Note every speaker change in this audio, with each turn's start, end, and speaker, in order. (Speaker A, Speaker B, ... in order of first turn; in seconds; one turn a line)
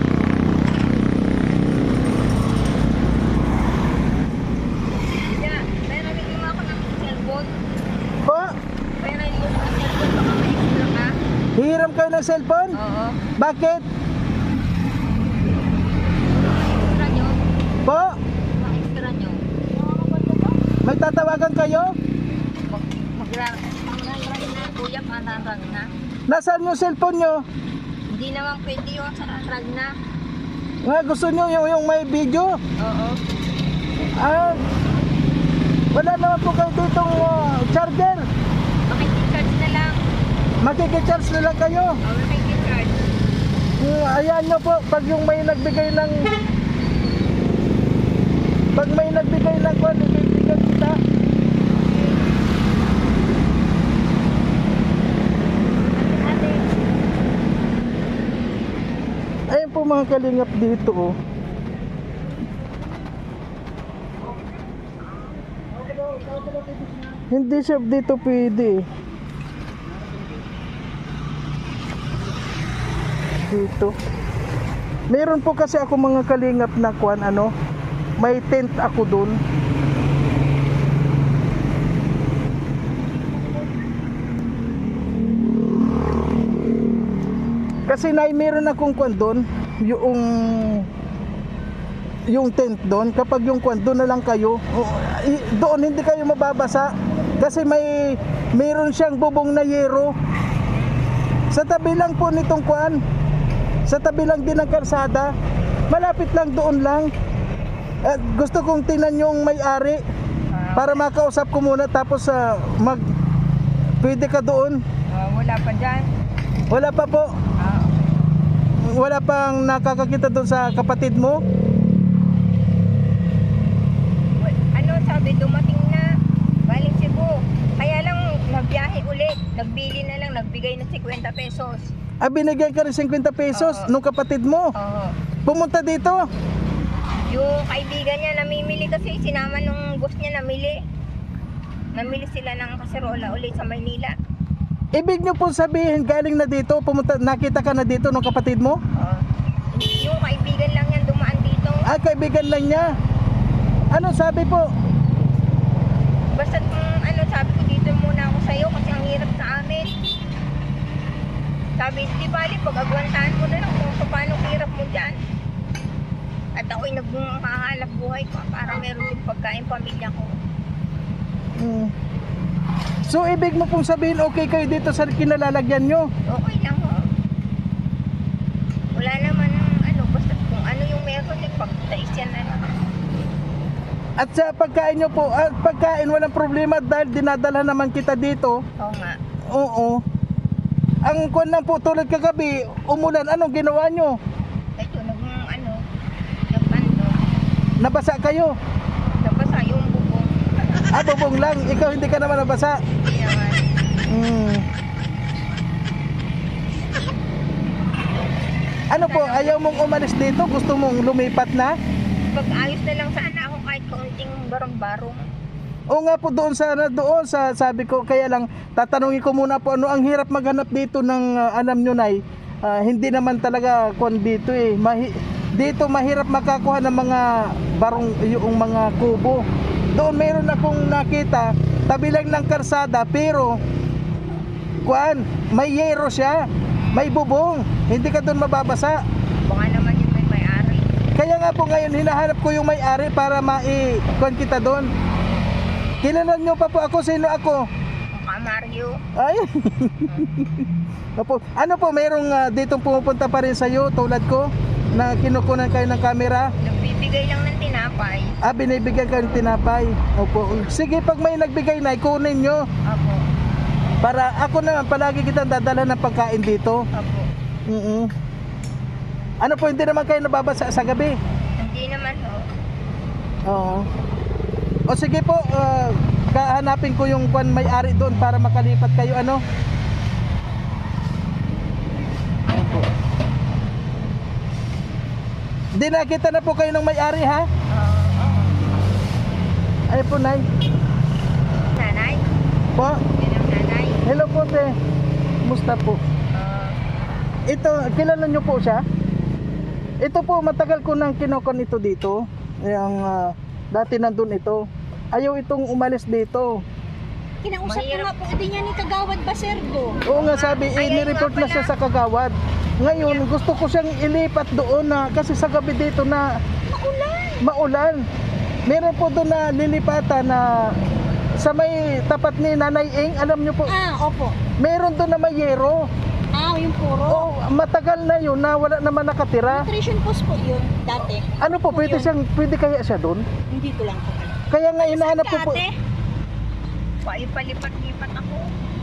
Speaker A: 5.3-7.6
Speaker B: 8.2-8.5
Speaker A: 9.0-11.1
Speaker B: 11.5-12.8
Speaker A: 12.7-13.2
Speaker B: 13.4-13.8
Speaker A: 16.3-17.4
Speaker B: 17.8-18.1
Speaker A: 18.6-19.4
Speaker C: 19.9-20.4
Speaker B: 20.8-21.9
Speaker A: 22.7-25.9
Speaker B: 26.3-27.4
Speaker A: 28.1-29.9
Speaker B: 30.8-32.5
Speaker A: 32.8-33.2
Speaker B: 34.2-34.6
Speaker B: 35.9-38.2
Speaker A: 38.9-40.0
Speaker B: 40.6-42.0
Speaker A: 42.0-43.1
Speaker B: 43.8-46.3
Speaker B: 48.7-51.0
Speaker A: 56.1-56.6
Speaker B: 59.5-61.1
Speaker B: 67.3-68.8
Speaker B: 73.4-73.9
Speaker B: 75.1-77.5
Speaker B: 78.2-79.4
Speaker B: 87.9-90.9
Speaker B: 92.3-100.1
Speaker B: 101.5-103.0
Speaker B: 103.8-105.3
Speaker B: 105.9-107.1
Speaker B: 108.0-110.0
Speaker A: 110.5-111.1
Speaker B: 110.8-113.0
Speaker B: 114.0-114.8
Speaker A: 115.1-116.1
Speaker B: 116.7-117.3
Speaker A: 117.6-118.2
Speaker B: 118.8-121.4
Speaker A: 124.4-126.0
Speaker A: 126.7-131.9
Speaker B: 132.2-134.7
Speaker A: 133.5-133.9
Speaker A: 134.8-135.1
Speaker B: 135.4-136.2
Speaker A: 137.3-140.8
Speaker A: 141.9-144.1
Speaker B: 144.9-148.8
Speaker A: 149.0-151.8
Speaker B: 151.8-152.9
Speaker B: 153.9-154.7
Speaker A: 156.3-159.9
Speaker A: 161.8-165.2
Speaker A: 166.5-170.3
Speaker B: 171.6-171.9
Speaker B: 173.1-176.1
Speaker A: 176.3-177.0
Speaker A: 178.9-182.7
Speaker B: 184.2-188.6
Speaker A: 188.8-189.2
Speaker B: 189.5-190.0
Speaker B: 191.0-194.2
Speaker A: 194.8-195.8
Speaker A: 196.5-197.2
Speaker B: 197.8-198.5
Speaker A: 199.2-201.0
Speaker B: 200.9-202.8
Speaker A: 203.0-203.6
Speaker B: 204.1-204.6
Speaker B: 208.9-211.7
Speaker A: 208.9-209.6
Speaker A: 212.3-215.2
Speaker B: 215.9-233.6
Speaker B: 234.8-239.0
Speaker A: 236.7-237.2
Speaker A: 239.4-240.9
Speaker B: 241.1-244.9
Speaker B: 246.0-247.7
Speaker A: 248.1-249.0
Speaker B: 249.1-256.5
Speaker A: 256.6-258.4
Speaker B: 258.4-262.6
Speaker A: 259.1-259.5
Speaker A: 262.9-263.2
Speaker B: 264.0-266.8
Speaker A: 266.9-267.3
Speaker B: 267.7-268.1
Speaker B: 269.4-271.1
Speaker A: 271.6-272.4
Speaker B: 273.4-273.9
Speaker B: 274.9-279.4
Speaker B: 282.5-282.9
Speaker B: 285.7-287.5
Speaker A: 287.7-288.6
Speaker B: 289.9-290.4
Speaker A: 291.8-292.2
Speaker B: 292.8-293.0
Speaker A: 293.1-294.0
Speaker B: 294.0-294.7
Speaker B: 295.4-296.0
Speaker A: 296.3-296.8
Speaker B: 297.4-298.8
Speaker B: 300.0-306.6
Speaker C: 307.4-310.0
Speaker A: 307.6-308.1
Speaker B: 310.1-316.2
Speaker A: 310.1-311.7
Speaker A: 312.9-313.2
Speaker C: 316.7-317.4
Speaker B: 317.4-318.0
Speaker B: 318.6-320.8
Speaker B: 321.4-323.7
Speaker C: 323.7-324.4
Speaker B: 324.6-325.8
Speaker C: 326.3-327.2
Speaker B: 327.1-329.7
Speaker C: 329.5-332.1
Speaker B: 331.4-333.2
Speaker C: 333.5-335.7
Speaker B: 334.5-335.6
Speaker A: 337.0-338.4